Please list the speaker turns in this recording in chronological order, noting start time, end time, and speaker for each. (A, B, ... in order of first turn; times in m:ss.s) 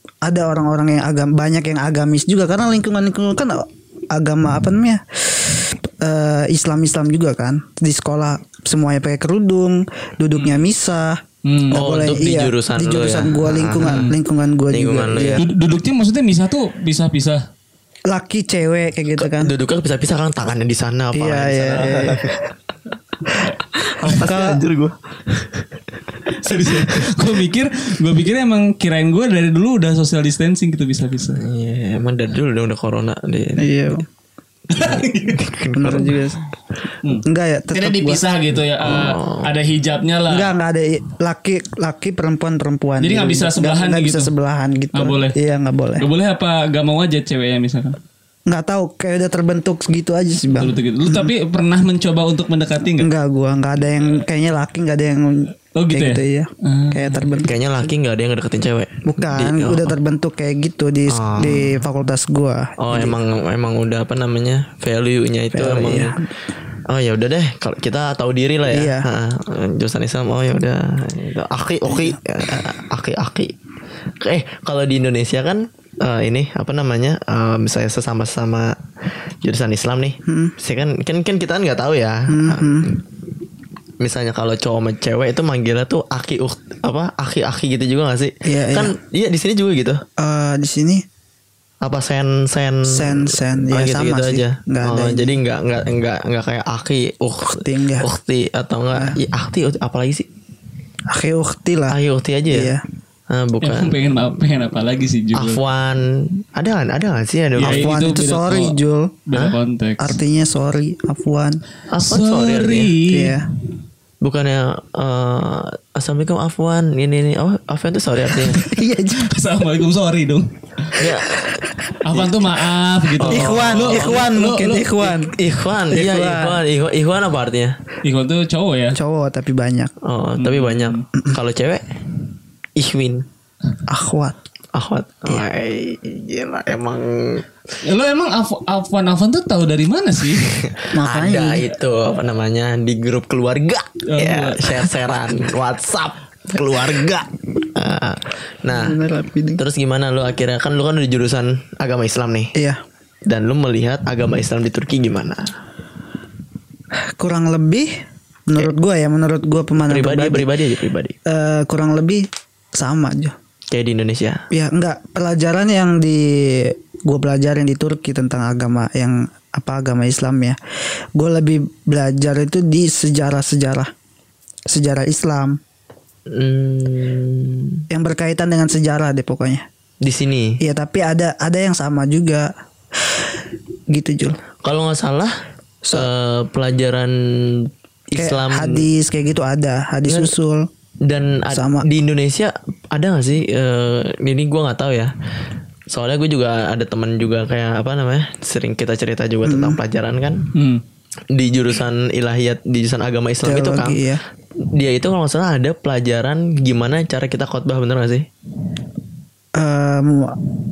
0:00.2-0:15.4 A
0:11.4-0:11.8 B
0:11.7-0:14.1 C
0:13.8-0:14.2 B
0:14.7-0:15.4 C
0:15.4-0:17.4 B
0:18.1-0:19.5 A
0:19.2-0:22.4 C
0:21.1-0:22.3 A
0:23.8-0:25.8 C
0:24.0-0:24.6 A
0:26.3-0:31.4 B
0:26.7-0:27.1 C
0:31.3-0:34.0 C
0:33.6-0:34.1 A
0:34.7-0:35.4 B
0:34.7-0:36.2 C
0:35.7-0:36.4 A
0:37.0-0:40.5 B
0:37.2-0:38.2 A
0:38.8-0:39.5 C
0:40.3-0:46.1 A
0:43.0-0:44.3 B
0:44.9-0:45.4 B
0:46.0-0:48.0 B
0:48.5-0:51.3 A
0:50.5-0:53.1 B
0:53.0-0:57.5 A
0:55.8-0:57.4 B
0:57.4-1:00.0 C
0:59.0-1:03.1 A
1:01.1-1:01.8 C
1:02.8-1:06.2 C
1:05.5-1:06.3 A
1:06.9-1:13.6 C
1:08.7-1:09.1 A
1:14.2-1:18.8 C
1:19.4-1:23.0 C
1:20.3-1:20.6 A
1:22.3-1:23.0 A
1:24.0-1:30.0 C
1:28.4-1:29.0 A
1:30.2-1:31.0 A
1:31.8-1:40.3 C
1:32.9-1:35.3 A
1:37.5-1:38.1 A
1:41.1-1:42.0 A
1:41.9-1:42.7 C
1:42.5-1:42.8 A
1:43.3-1:44.0 C
1:43.6-1:45.6 B
1:45.3-1:48.0 C
1:47.6-1:50.2 B
1:47.6-1:49.2 A
1:50.0-1:51.6 A
1:51.9-1:52.9 C
1:52.0-1:53.4 B
1:53.1-1:53.5 A
1:54.2-1:58.7 C
1:58.6-1:59.3 A
1:59.1-2:01.0 B
2:01.0-2:01.5 C
2:02.0-2:05.1 B
2:02.1-2:02.5 C
2:03.2-2:04.3 C
2:03.3-2:05.3 A
2:05.2-2:07.8 C
2:05.9-2:06.6 A
2:08.0-2:09.0 B
2:08.9-2:09.9 A
2:10.0-2:12.0 C
2:10.4-2:11.0 B
2:12.8-2:13.3 C
2:13.9-2:14.4 A
2:14.7-2:17.5 C
2:17.8-2:20.7 B
2:20.6-2:29.0 C
2:20.9-2:21.7 A
2:24.1-2:24.9 B
2:28.7-2:29.6 A
2:29.6-2:32.5 C
2:33.3-2:35.5 C
2:37.0-2:37.9 A
2:38.5-2:40.5 A
2:39.9-2:41.2 C
2:41.3-2:42.2 A
2:42.8-2:43.3 A
2:43.7-2:44.4 C
2:44.5-2:50.6 A
2:51.2-2:53.9 A
2:54.7-2:55.6 A
2:56.3-2:57.8 C
2:57.9-2:59.6 A
3:00.0-3:00.6 C
3:00.6-3:02.5 A
3:03.9-3:04.4 A
3:04.6-3:05.4 C
3:05.9-3:08.9 C
3:08.2-3:10.7 A
3:10.1-3:10.3 C
3:11.0-3:15.1 C
3:11.5-3:11.9 A
3:15.9-3:20.5 C
3:19.5-3:19.8 A
3:20.5-3:20.8 B
3:21.3-3:24.0 C
3:23.4-3:24.2 A
3:24.6-3:28.3 C
3:29.6-3:30.4 A